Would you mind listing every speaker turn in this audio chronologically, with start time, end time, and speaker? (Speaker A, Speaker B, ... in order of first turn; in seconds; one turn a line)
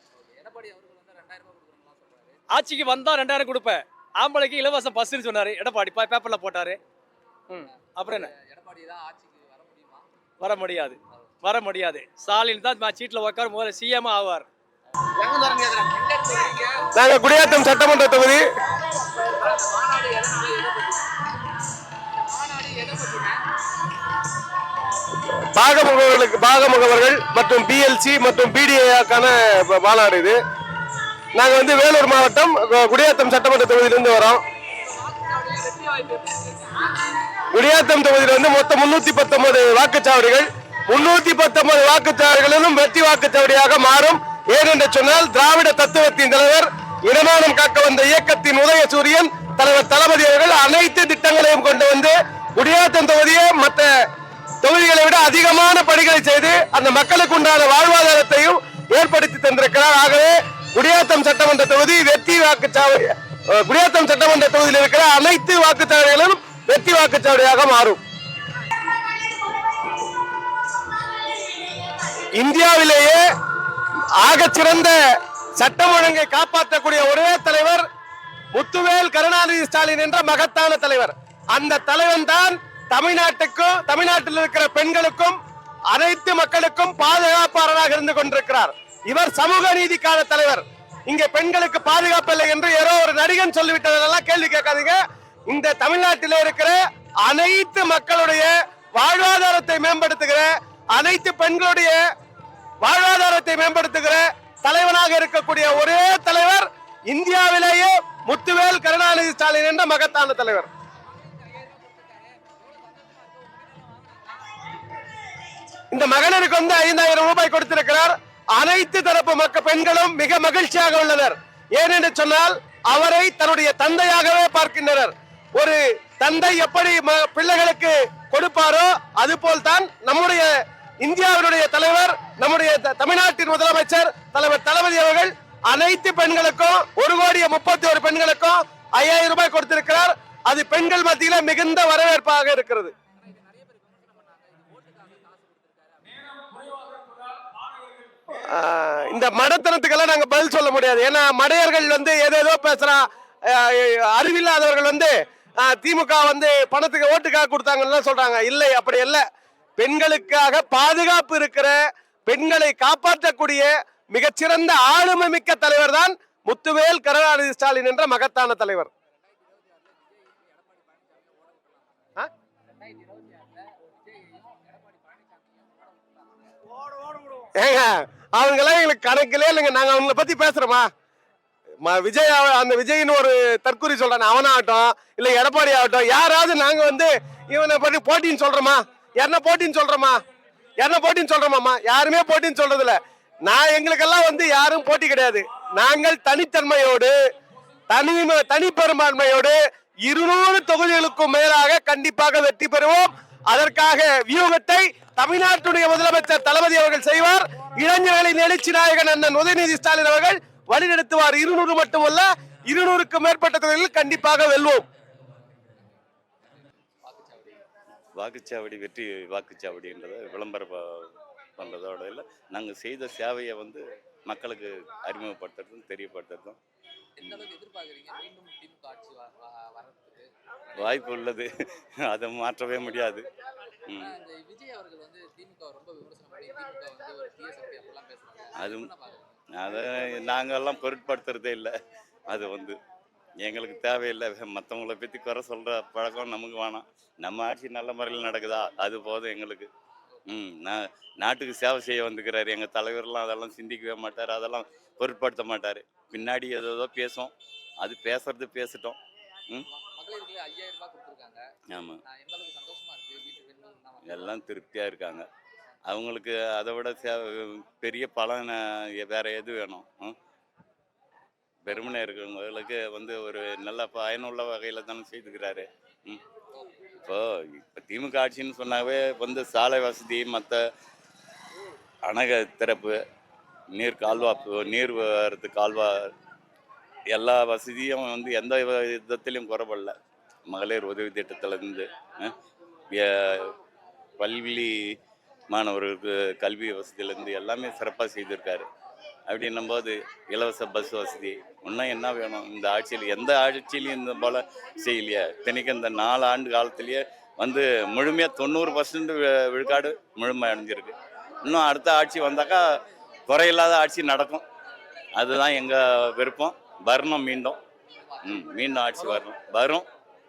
Speaker A: 0.1-2.4
Speaker B: 2.5-6.8
Speaker B: 7.5-8.3
Speaker A: 7.8-10.1
Speaker B: 10.4-14.4
Speaker A: 15.7-16.8
Speaker C: 16.9-18.4
Speaker A: 19.4-21.1
Speaker A: 22.1-23.4
Speaker C: 25.5-30.4
Speaker C: 31.3-34.4
Speaker A: 34.9-36.9
Speaker C: 37.5-53.9
Speaker C: 54.6-68.0
Speaker C: 72.3-73.2
Speaker C: 74.2-75.0
Speaker C: 75.6-77.8
Speaker C: 78.5-85.4
Speaker C: 85.9-102.0
Speaker C: 102.8-110.7
Speaker A: 111.1-114.6
Speaker C: 115.9-142.9
Speaker A: 143.2-146.2
Speaker C: 148.5-159.2
Speaker C: 159.8-168.9
Speaker A: 169.4-172.1
Speaker A: 172.8-176.5
Speaker C: 177.5-180.9
Speaker C: 181.8-190.2
Speaker C: 190.8-197.1
Speaker C: 197.9-214.8
Speaker A: 217.0-217.6
Speaker D: 218.2-226.6
Speaker A: 227.2-230.3
Speaker D: 227.2-227.4
Speaker D: 230.8-231.5
Speaker D: 232.0-233.3
Speaker A: 234.0-239.8
Speaker D: 238.6-238.9
Speaker D: 239.6-241.7
Speaker D: 242.3-242.8
Speaker D: 243.4-249.7
Speaker D: 250.3-259.0
Speaker A: 259.7-261.4
Speaker A: 262.1-264.4
Speaker D: 264.1-265.3
Speaker D: 265.9-270.1
Speaker D: 271.6-276.2
Speaker A: 276.5-276.9
Speaker D: 277.0-280.6
Speaker D: 282.1-282.9
Speaker D: 283.7-286.1
Speaker D: 287.1-289.9
Speaker D: 290.5-292.4
Speaker D: 292.9-293.5
Speaker D: 294.2-294.7
Speaker D: 295.5-298.7
Speaker D: 299.3-312.6
Speaker D: 313.3-314.4
Speaker D: 315.2-317.6
Speaker D: 318.2-319.9